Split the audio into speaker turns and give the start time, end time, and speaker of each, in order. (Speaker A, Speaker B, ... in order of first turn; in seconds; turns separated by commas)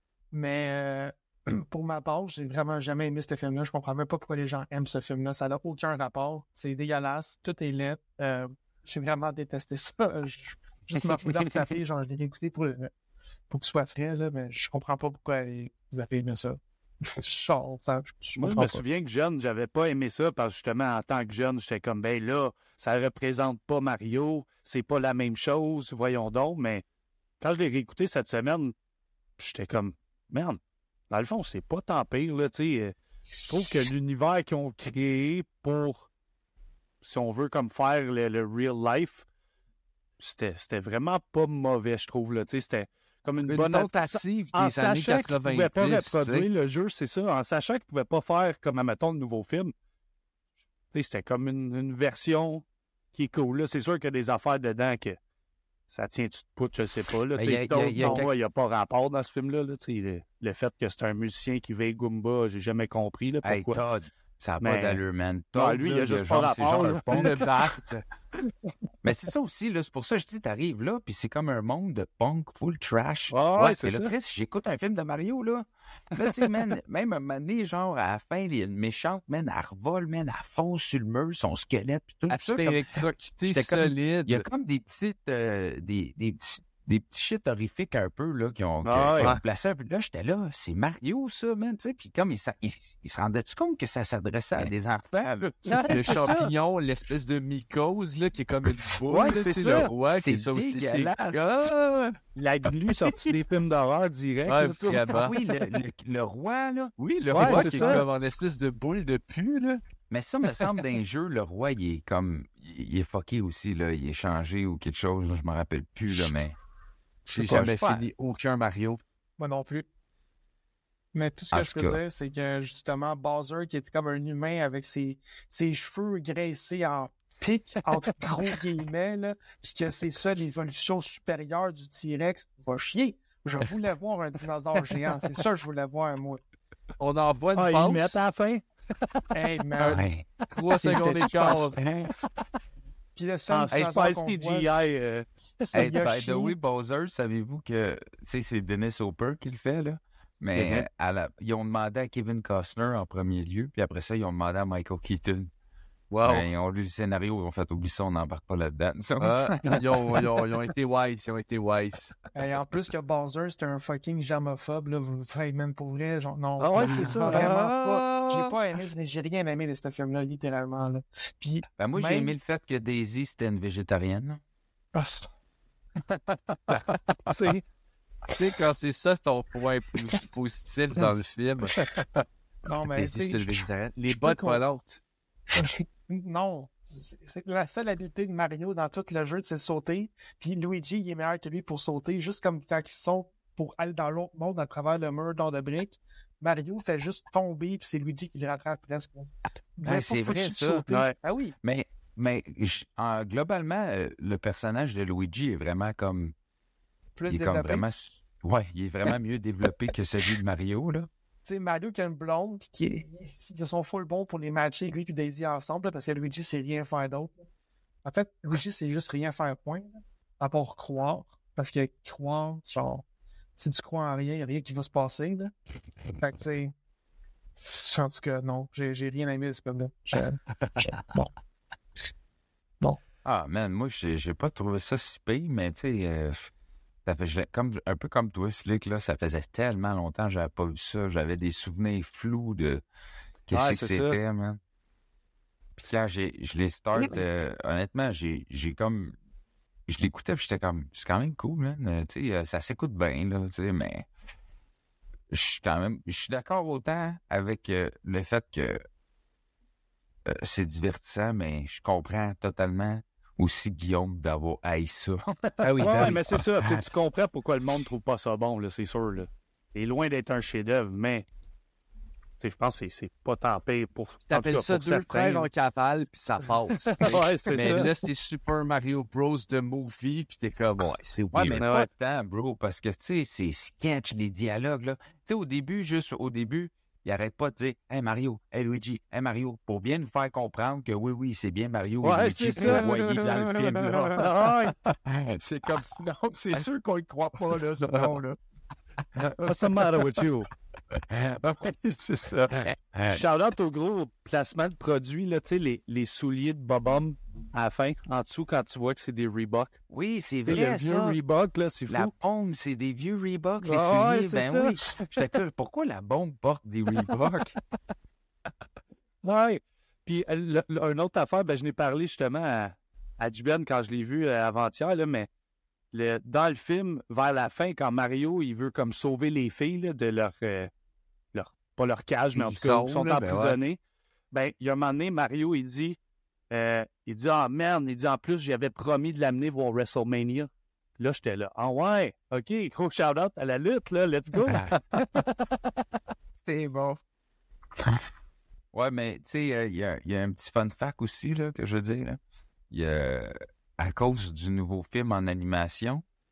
Speaker A: 0.3-12.9, Speaker A: 13.5-18.8, Speaker B: 18.4-26.8, Speaker B: 27.4-28.8, Speaker B: 29.4-30.6, Speaker B: 31.1-36.1, Speaker B: 37.0-39.2, Speaker B: 40.2-49.7, Speaker C: 43.5-46.5, Speaker B: 50.9-55.2, Speaker B: 55.9-63.8, Speaker D: 57.4-58.3, Speaker D: 63.4-67.5, Speaker B: 64.6-65.0, Speaker B: 65.5-67.5, Speaker C: 67.1-68.0, Speaker D: 69.0-96.3, Speaker B: 73.3-74.1, Speaker C: 82.3-84.5, Speaker B: 88.8-89.4, Speaker B: 95.7-96.5, Speaker C: 95.9-102.2, Speaker B: 99.1-99.9, Speaker D: 99.1-101.7, Speaker B: 102.3-105.2, Speaker C: 104.5-105.4, Speaker D: 104.9-108.0, Speaker C: 107.0-109.8, Speaker B: 107.3-108.1, Speaker D: 110.1-116.6, Speaker D: 117.3-118.1, Speaker C: 117.3-119.0, Speaker A: 119.4-119.9, Speaker A: 121.1-136.4, Speaker D: 121.5-122.0, Speaker C: 137.0-138.2, Speaker B: 137.6-139.2, Speaker A: 139.3-140.1, Speaker C: 139.8-141.8, Speaker D: 139.9-140.3, Speaker A: 140.8-141.8, Speaker B: 140.8-141.8, Speaker A: 143.2-144.8, Speaker B: 143.5-145.8, Speaker D: 143.7-144.0, Speaker A: 145.6-146.6, Speaker D: 145.7-155.5, Speaker C: 150.5-150.9, Speaker C: 156.1-156.5, Speaker D: 156.2-160.2, Speaker C: 159.2-162.2, Speaker A: 162.3-172.3, Speaker B: 166.6-167.7, Speaker C: 166.8-168.6, Speaker D: 171.8-174.4, Speaker A: 174.9-175.3, Speaker B: 176.7-177.6, Speaker C: 178.3-181.9, Speaker A: 182.7-184.6, Speaker C: 182.8-185.0, Speaker A: 185.5-201.6, Speaker D: 199.8-200.8, Speaker B: 200.9-201.2, Speaker D: 201.6-206.3, Speaker A: 207.2-207.8, Speaker D: 207.3-211.1, Speaker A: 211.4-217.4, Speaker A: 218.0-223.1, Speaker A: 223.6-225.5, Speaker A: 226.1-226.7, Speaker A: 227.6-231.3, Speaker D: 233.2-236.5, Speaker D: 237.1-242.8, Speaker D: 243.5-244.6, Speaker B: 243.5-244.2, Speaker D: 245.8-249.2, Speaker D: 249.9-254.1, Speaker D: 255.3-258.8, Speaker D: 260.3-266.8, Speaker C: 265.6-266.2, Speaker B: 265.6-271.3, Speaker B: 272.4-275.5, Speaker C: 274.3-281.7, Speaker B: 276.9-277.9, Speaker D: 277.1-277.7, Speaker D: 281.3-294.3, Speaker B: 281.6-281.9, Speaker B: 292.0-294.8, Speaker D: 295.1-298.2, Speaker A: 297.5-298.4, Speaker D: 299.2-299.5, Speaker B: 299.5-300.5, Speaker D: 301.0-303.2, Speaker B: 303.1-309.8, Speaker D: 309.9-311.2, Speaker B: 310.5-312.1, Speaker D: 311.9-317.6, Speaker B: 313.6-315.1, Speaker B: 319.2-325.3, Speaker B: 325.9-330.7, Speaker B: 331.3-333.8, Speaker C: 332.4-333.6, Speaker B: 334.3-336.0, Speaker B: 336.5-345.6, Speaker D: 346.4-347.0, Speaker D: 348.7-352.2, Speaker D: 352.7-356.0